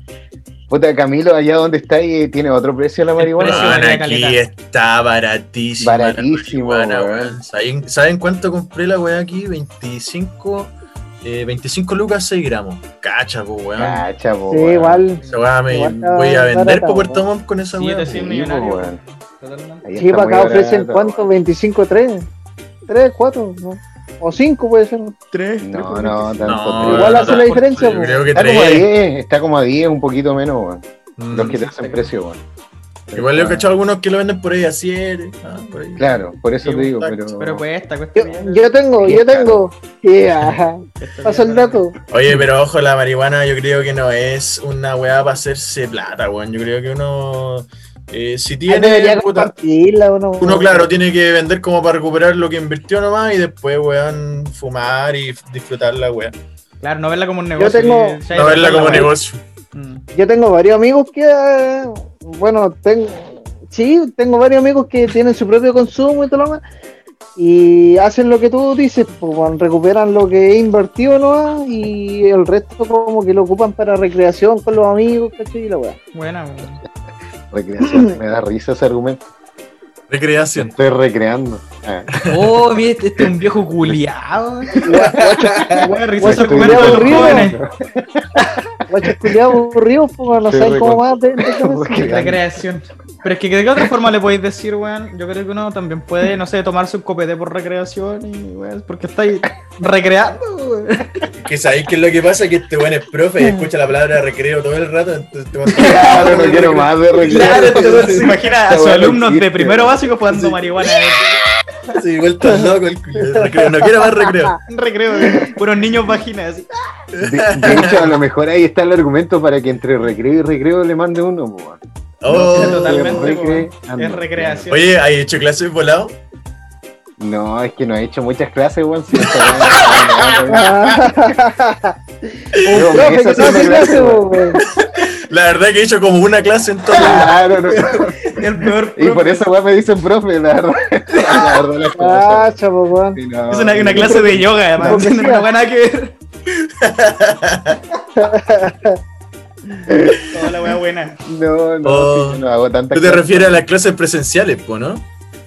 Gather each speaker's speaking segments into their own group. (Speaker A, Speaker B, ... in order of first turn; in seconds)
Speaker A: 0.7-3.7, 5.8-7.4, 13.8-15.0, 18.1-19.0, 19.8-21.3, 25.6-27.4, 28.3-32.4, 33.1-33.7, 36.0-37.6, 39.0-39.7, 77.5-79.3, 80.5-82.2, 86.2-88.7, 90.5-92.4, 105.8-110.5, 117.2-124.7, 127.2-131.0, 132.7-134.5, 136.9-138.2, 138.9-142.6, 143.1-145.1, 149.9-150.2, 151.2-153.6
Speaker B: 3.2-4.4, 15.2-15.4, 17.8-19.9, 25.3-26.6, 27.2-27.5, 31.3-32.1, 37.4-38.7, 41.0-41.8, 56.8-59.1, 59.7-60.0, 76.1-76.8, 82.2-87.6, 92.1-101.3, 105.7-111.4, 114.7-116.7, 122.5-124.9, 138.2-139.4, 141.2-141.4, 143.5-146.1, 150.3-151.2
Speaker C: 3.4-14.0, 15.3-18.4, 26.4-28.9, 31.2-31.6, 33.1-37.3, 42.1-49.5, 50.4-56.4, 58.3-59.4, 80.1-80.7, 82.1-82.5, 84.9-85.7, 101.4-108.3, 111.9-114.6, 117.1-118.2, 122.2-123.2, 124.7-126.2, 129.2-130.1, 132.6-133.9, 134.7-138.1, 146.6-147.8, 151.8-155.0
Speaker D: 14.5-17.2, 20.0-22.3, 22.9-25.1, 26.8-28.2, 38.1-42.0, 48.7-50.9, 57.6-59.1, 60.1-66.6, 67.4-76.0, 77.9-78.1, 84.8-87.5, 88.9-92.1, 113.3-114.5, 130.5-134.6, 142.0-143.2, 143.9-144.2, 144.8-145.5, 148.2-149.0